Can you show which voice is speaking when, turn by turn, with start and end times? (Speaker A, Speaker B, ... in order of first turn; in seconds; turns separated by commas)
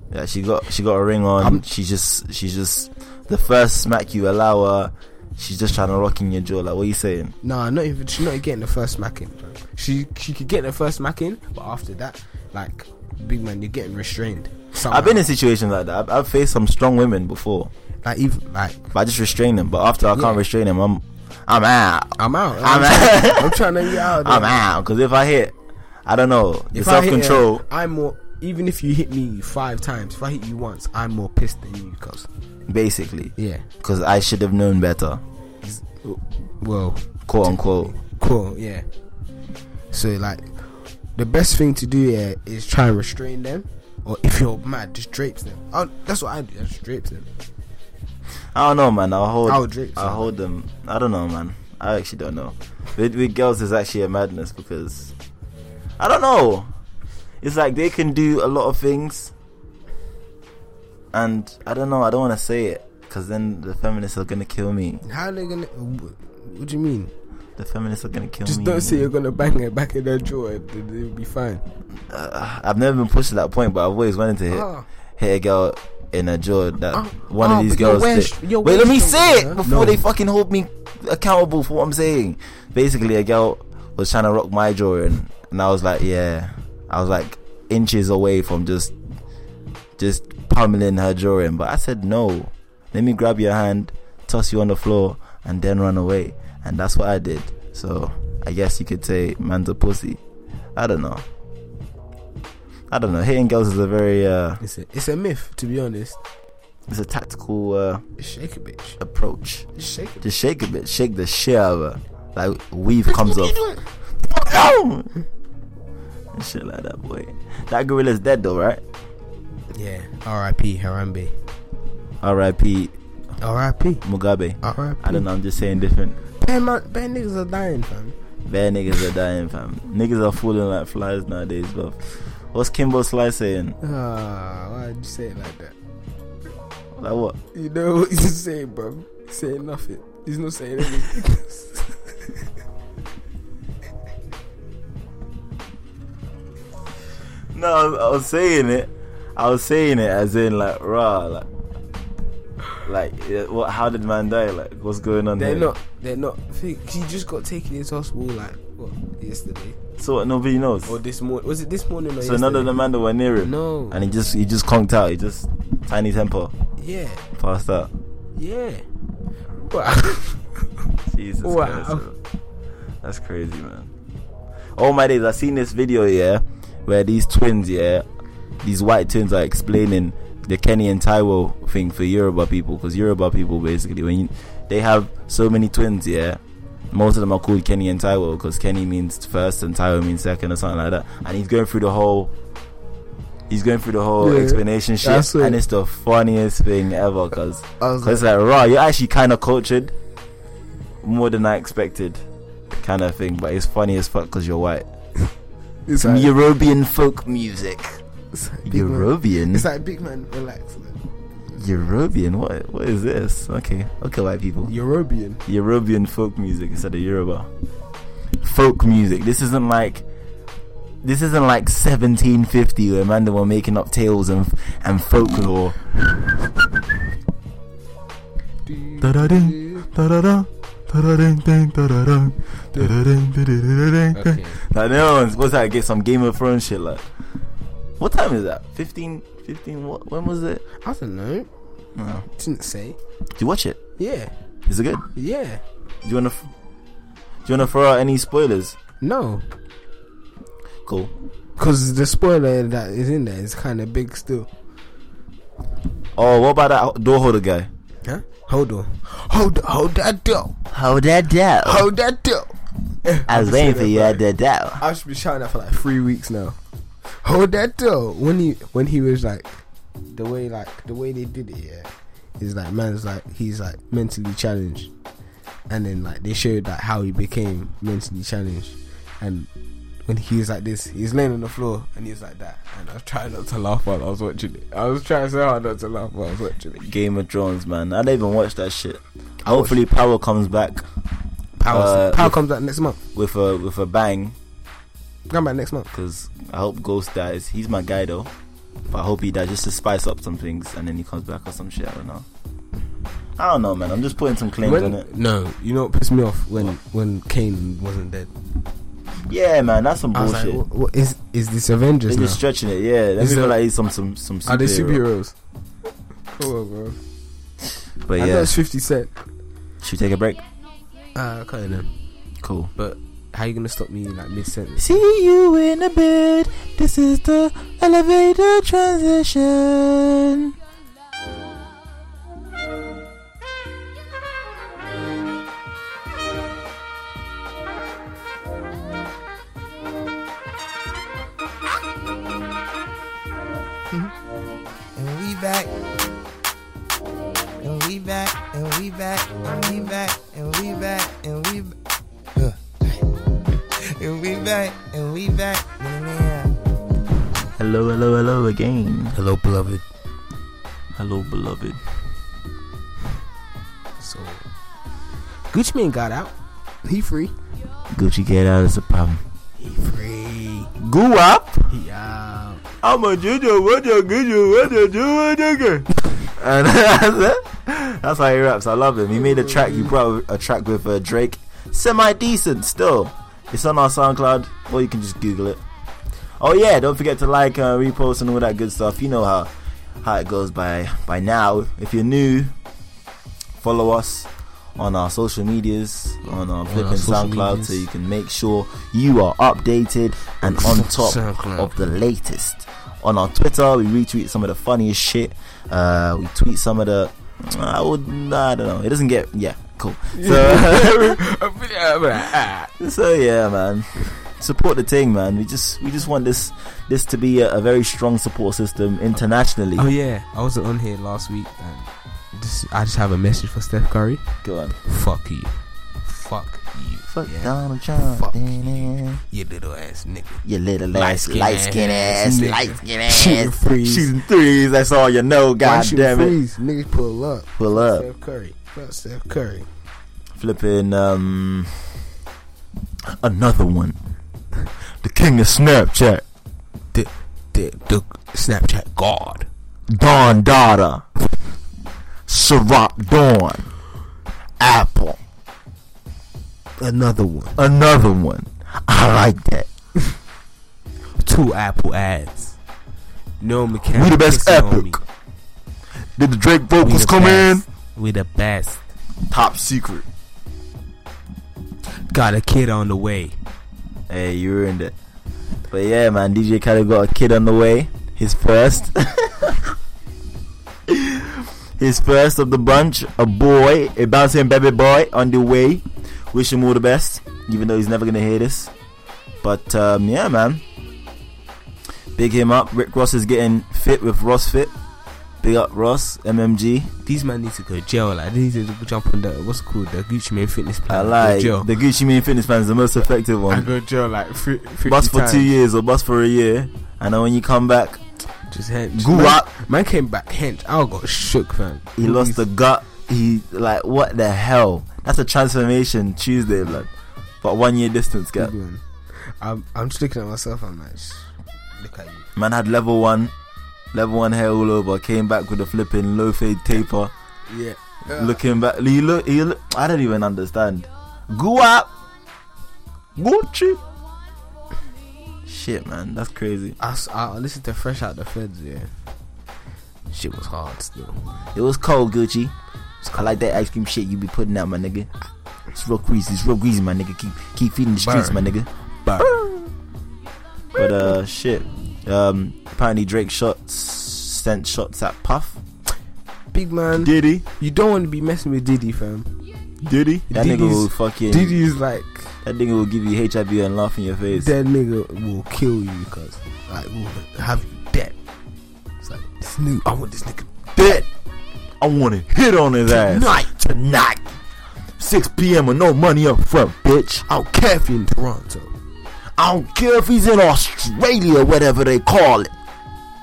Speaker A: 0.1-7.3, Speaker B: 1.4-1.6, Speaker B: 7.4-15.2, Speaker A: 14.9-17.7, Speaker B: 18.0-18.9, Speaker A: 18.9-25.5, Speaker B: 20.1-20.4, Speaker B: 22.2-24.6, Speaker A: 26.1-27.6, Speaker B: 26.7-32.3, Speaker A: 32.7-35.2, Speaker B: 33.4-33.6, Speaker B: 35.6-38.9, Speaker A: 37.3-37.9, Speaker B: 39.9-47.3, Speaker A: 48.5-55.1, Speaker B: 49.5-50.3, Speaker A: 56.0-56.7, Speaker A: 57.4-59.3, Speaker A: 61.1-65.0, Speaker B: 65.0-67.1, Speaker A: 67.6-69.1, Speaker B: 68.5-71.6, Speaker A: 72.1-88.9, Speaker B: 74.5-74.8, Speaker B: 76.9-80.0, Speaker A: 90.0-100.2, Speaker A: 100.8-101.2, Speaker A: 102.9-104.6, Speaker B: 104.6-106.2, Speaker A: 106.9-108.0, Speaker B: 108.2-109.0, Speaker A: 109.0-109.7, Speaker B: 109.8-110.2, Speaker A: 110.2-113.5, Speaker B: 113.0-113.8, Speaker A: 114.2-115.1, Speaker A: 116.3-118.8, Speaker B: 119.7-121.3, Speaker A: 122.2-122.9, Speaker B: 123.4-124.0, Speaker A: 124.0-126.2, Speaker B: 124.6-125.2, Speaker B: 126.4-128.2, Speaker A: 128.4-133.8, Speaker B: 133.8-135.7, Speaker A: 136.9-137.4, Speaker B: 137.5-141.9, Speaker A: 147.5-151.5, Speaker A: 152.8-155.7, Speaker B: 155.4-159.8, Speaker A: 160.0-160.9, Speaker B: 160.8-162.7, Speaker A: 162.2-166.5, Speaker B: 163.4-164.0, Speaker B: 166.8-167.2, Speaker A: 167.3-167.9, Speaker B: 168.3-168.8, Speaker B: 169.6-170.7, Speaker A: 171.1-172.2, Speaker B: 171.4-172.1, Speaker A: 173.0-173.9, Speaker A: 174.8-178.0, Speaker A: 178.6-186.4, Speaker A: 186.9-192.3, Speaker A: 193.5-199.9, Speaker B: 194.2-195.6, Speaker B: 197.8-198.2, Speaker A: 201.0-202.2, Speaker A: 202.8-204.8, Speaker B: 205.9-206.3, Speaker A: 206.0-208.0, Speaker B: 208.3-211.0, Speaker A: 208.7-209.7, Speaker A: 211.5-214.7, Speaker B: 214.6-215.4, Speaker A: 215.4-217.5, Speaker A: 218.4-220.0, Speaker A: 221.0-225.8, Speaker B: 228.7-229.9, Speaker A: 229.0-237.1, Speaker B: 234.1-234.6, Speaker A: 238.0-240.6, Speaker B: 240.8-241.5, Speaker A: 241.9-242.2, Speaker B: 242.3-243.0, Speaker A: 243.4-243.8, Speaker B: 244.0-244.3, Speaker A: 244.7-245.1, Speaker B: 245.1-245.6, Speaker A: 246.0-246.5, Speaker A: 247.4-248.8, Speaker B: 249.0-249.4, Speaker A: 250.8-251.1, Speaker B: 251.6-254.5, Speaker A: 256.1-257.7, Speaker B: 258.0-260.6, Speaker A: 260.7-261.9, Speaker B: 261.6-262.5, Speaker B: 263.0-264.2, Speaker A: 263.3-264.8, Speaker B: 264.8-266.6, Speaker B: 267.2-274.9, Speaker B: 275.7-279.5, Speaker B: 280.1-286.8, Speaker A: 286.8-290.8, Speaker B: 289.4-289.8, Speaker B: 291.6-293.0, Speaker A: 291.7-292.4, Speaker A: 293.1-294.3, Speaker B: 295.3-295.9, Speaker A: 295.9-298.3, Speaker A: 298.9-302.2, Speaker A: 303.4-305.0, Speaker B: 304.6-308.3, Speaker A: 309.2-310.6, Speaker B: 310.1-312.4, Speaker A: 312.1-315.0, Speaker B: 313.2-313.5, Speaker B: 314.4-315.3, Speaker B: 316.4-317.0, Speaker A: 318.0-318.5, Speaker B: 318.2-319.2, Speaker A: 319.8-320.4, Speaker B: 321.1-322.0, Speaker A: 322.4-322.7, Speaker B: 322.8-325.0, Speaker A: 324.8-330.5, Speaker C: 344.9-345.7, Speaker C: 347.6-351.7, Speaker C: 352.4-353.1, Speaker C: 353.7-356.6, Speaker A: 357.6-359.1, Speaker B: 359.1-359.8, Speaker A: 360.9-361.8, Speaker B: 364.0-364.4, Speaker B: 365.5-367.3, Speaker A: 367.9-369.2, Speaker B: 369.6-370.7, Speaker A: 370.8-371.7, Speaker B: 371.7-372.6, Speaker A: 372.8-385.6, Speaker B: 379.3-379.9, Speaker A: 386.4-389.5, Speaker A: 390.0-392.5, Speaker A: 393.6-411.2, Speaker B: 396.2-397.9, Speaker B: 400.4-401.7, Speaker B: 410.1-412.7, Speaker A: 412.8-419.9, Speaker B: 419.8-424.2, Speaker A: 424.4-424.8, Speaker B: 424.8-428.4, Speaker A: 427.1-429.2, Speaker B: 429.3-434.1, Speaker A: 430.4-436.3, Speaker B: 435.6-439.7, Speaker A: 437.6-438.1, Speaker A: 440.3-441.8, Speaker A: 443.0-444.0, Speaker A: 445.0-446.2, Speaker B: 446.9-449.5, Speaker A: 449.9-451.0, Speaker A: 452.3-453.7, Speaker A: 454.6-455.2, Speaker B: 456.8-457.6, Speaker A: 457.6-459.7, Speaker B: 461.2-462.6, Speaker B: 463.4-465.0, Speaker A: 463.9-465.0, Speaker A: 466.1-467.6, Speaker B: 466.8-468.8, Speaker A: 469.3-470.1, Speaker B: 472.1-473.4, Speaker A: 474.1-474.9, Speaker A: 475.7-479.7, Speaker A: 480.9-488.7, Speaker A: 489.4-490.6, Speaker A: 492.1-494.7, Speaker A: 495.4-496.9, Speaker B: 497.0-501.7, Speaker A: 500.9-503.7, Speaker B: 503.5-505.5, Speaker A: 504.8-508.0, Speaker B: 508.5-512.4, Speaker A: 509.0-509.5, Speaker A: 512.0-516.9, Speaker A: 517.4-518.5, Speaker B: 518.4-522.3, Speaker A: 522.4-523.3, Speaker A: 523.9-527.1, Speaker B: 527.5-528.4, Speaker A: 528.1-531.9, Speaker A: 533.1-533.8, Speaker A: 535.5-536.8, Speaker B: 536.8-538.9, Speaker B: 540.1-541.4, Speaker A: 541.5-542.5, Speaker B: 543.0-543.5, Speaker A: 543.1-545.1, Speaker A: 545.7-548.7, Speaker B: 548.0-548.5, Speaker B: 549.0-549.4, Speaker A: 550.7-555.6, Speaker B: 556.5-559.3, Speaker A: 557.0-557.4, Speaker A: 559.8-561.6, Speaker B: 560.3-562.3, Speaker A: 562.4-564.5, Speaker B: 564.3-568.1, Speaker B: 569.0-570.5, Speaker A: 570.8-571.1, Speaker A: 571.8-574.2, Speaker B: 572.9-573.5, Speaker A: 575.0-577.2, Speaker B: 577.3-578.7, Speaker A: 579.4-582.5